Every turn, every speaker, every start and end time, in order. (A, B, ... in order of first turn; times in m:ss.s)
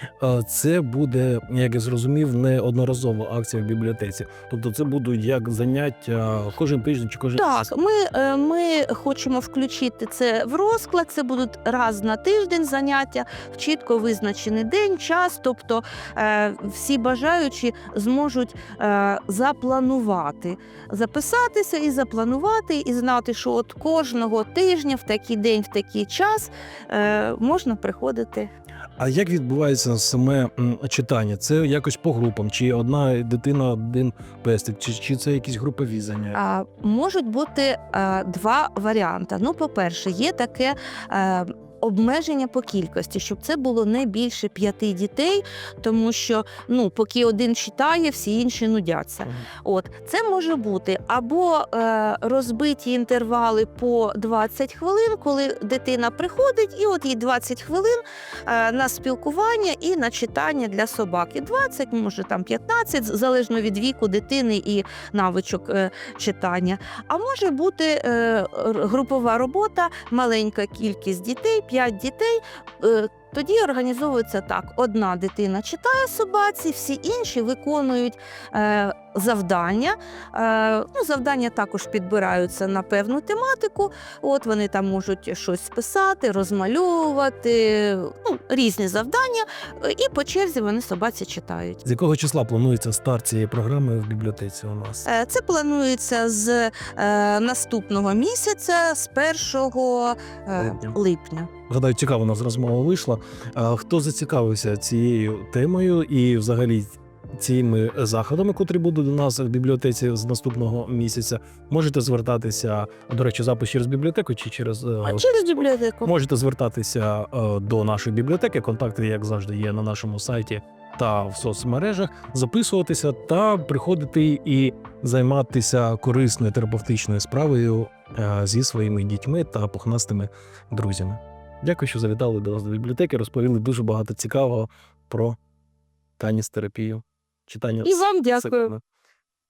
0:00.2-0:07.7 A
0:07.4-0:28.5 B
0:29.0-0:36.4 A
0:36.3-1:31.8 B
1:31.8-1:35.0 A
1:35.0-1:41.5 B
1:40.6-1:41.0 A
1:41.7-1:55.2 A
1:55.0-1:56.1 B
1:56.0-2:15.4 A
2:16.2-2:18.8 A
2:17.8-2:18.7 B